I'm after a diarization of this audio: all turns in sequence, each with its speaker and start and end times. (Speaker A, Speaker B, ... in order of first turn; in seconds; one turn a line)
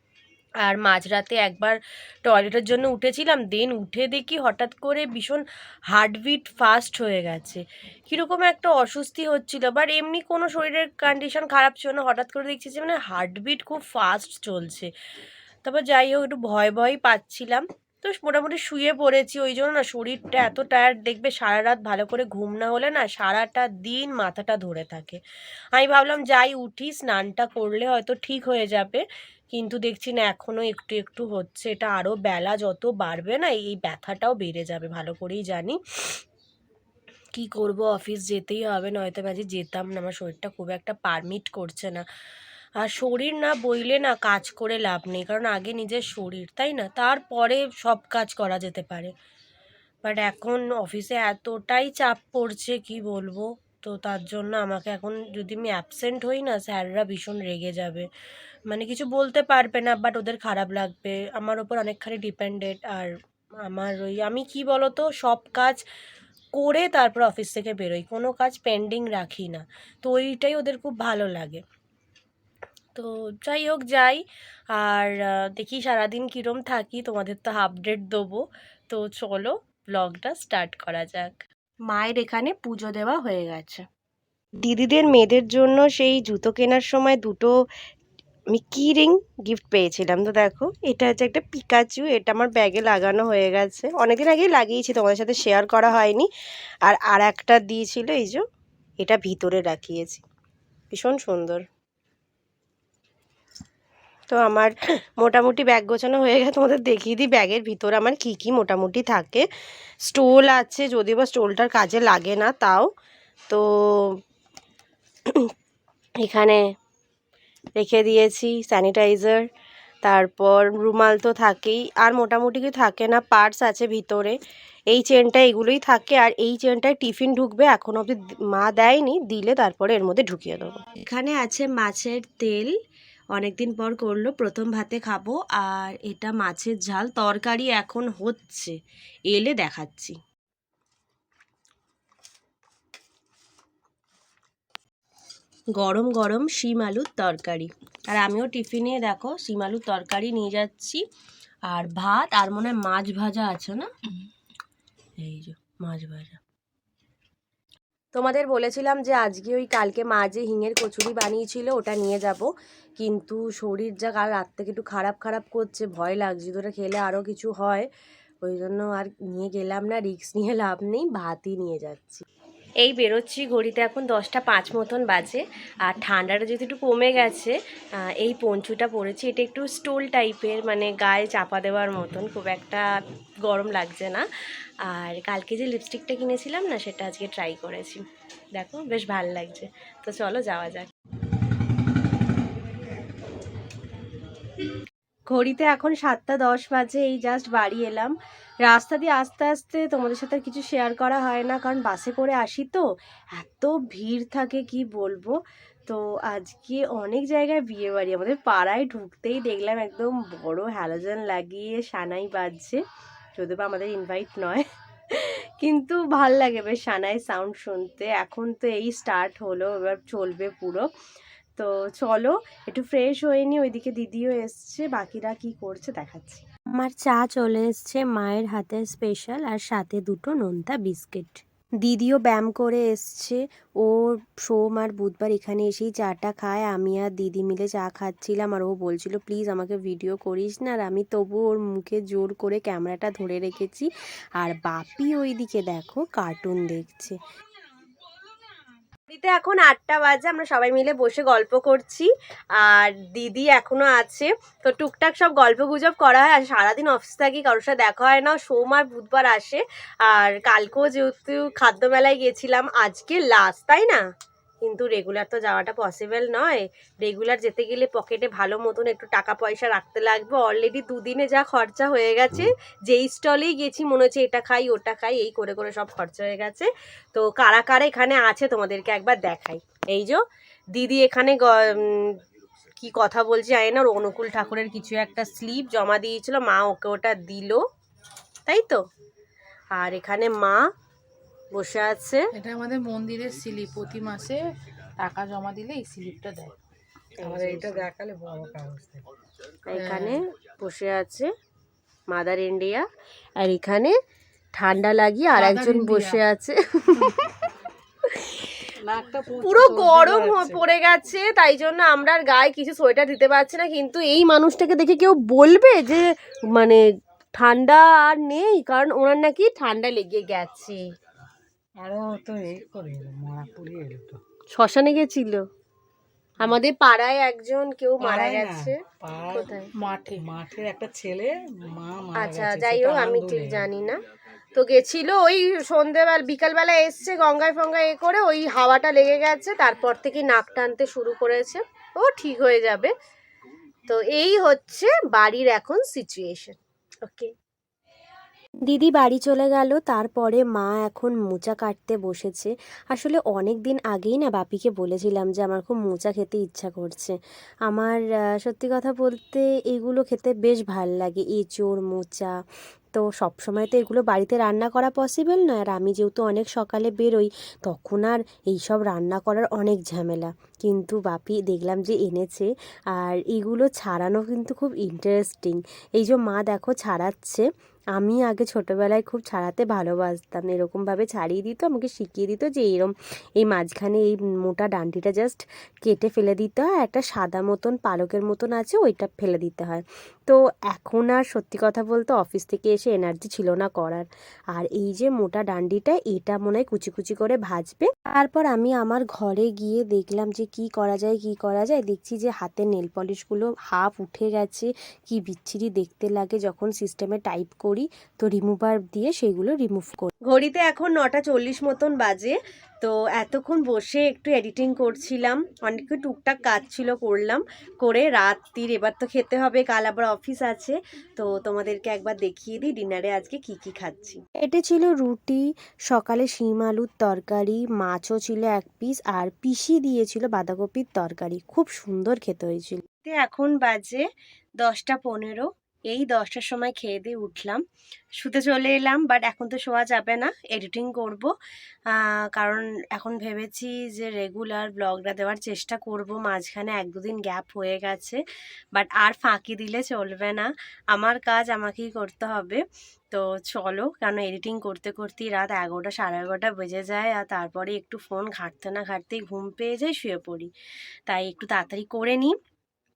Speaker A: 0.6-14.9
Speaker A: 15.6-25.2
Speaker A: 25.7-35.8
Speaker A: 37.3-42.0
Speaker A: 42.8-49.1
Speaker A: 50.0-58.1
Speaker A: 58.7-63.1
Speaker A: 63.7-65.8
Speaker A: 66.5-71.6
Speaker A: 72.9-74.2
Speaker A: 74.7-83.8
Speaker A: 84.6-87.5
Speaker A: 88.5-96.3
Speaker A: 96.8-98.4
Speaker A: 99.0-100.2
Speaker A: 100.9-101.6
Speaker A: 104.3-109.5
Speaker A: 110.1-112.9
Speaker A: 113.5-114.2
Speaker A: 116.2-116.6
Speaker A: 117.8-119.4
Speaker A: 120.0-124.4
Speaker A: 124.9-132.7
Speaker A: 133.3-138.8
Speaker A: 139.3-140.2
Speaker A: 145.8-151.0
Speaker A: 151.7-153.9
Speaker A: 155.2-156.4
Speaker A: 158.1-167.9
Speaker A: 168.4-172.2
Speaker A: 172.8-177.6
Speaker A: 178.2-182.9
Speaker A: 183.4-184.2
Speaker A: 184.9-188.0
Speaker A: 188.5-190.9
Speaker A: 195.3-198.1
Speaker A: 198.6-202.8
Speaker A: 203.3-205.3
Speaker A: 205.9-212.8
Speaker A: 213.4-220.8
Speaker A: 221.6-247.2
Speaker A: 249.1-264.0
Speaker A: 264.6-280.2
Speaker A: 280.7-282.2
Speaker A: 282.8-287.6
Speaker A: 288.5-288.8
Speaker A: 289.7-290.6
Speaker A: 291.5-292.3
Speaker B: 292.3-294.4
Speaker B: 295.0-296.6
Speaker A: 297.2-297.9
Speaker C: 297.2-299.0
Speaker A: 299.6-301.3
Speaker B: 299.7-300.2
Speaker A: 302.1-302.8
Speaker A: 303.4-303.9
Speaker A: 304.6-307.5
Speaker B: 305.3-306.2
Speaker A: 308.1-308.5
Speaker C: 308.8-310.6
Speaker A: 309.4-316.8
Speaker A: 317.4-320.8
Speaker C: 321.8-324.2
Speaker A: 324.5-325.4
Speaker A: 326.4-328.8
Speaker C: 328.0-329.5
Speaker A: 329.3-329.7
Speaker B: 329.8-330.2
Speaker C: 330.2-333.7
Speaker A: 332.1-334.0
Speaker A: 334.5-342.9
Speaker A: 343.9-347.3
Speaker A: 348.6-362.3
Speaker A: 362.9-434.0
Speaker A: 434.6-437.6
Speaker A: 438.2-441.3
Speaker A: 441.9-448.2
Speaker A: 448.7-460.5
Speaker A: 461.1-462.3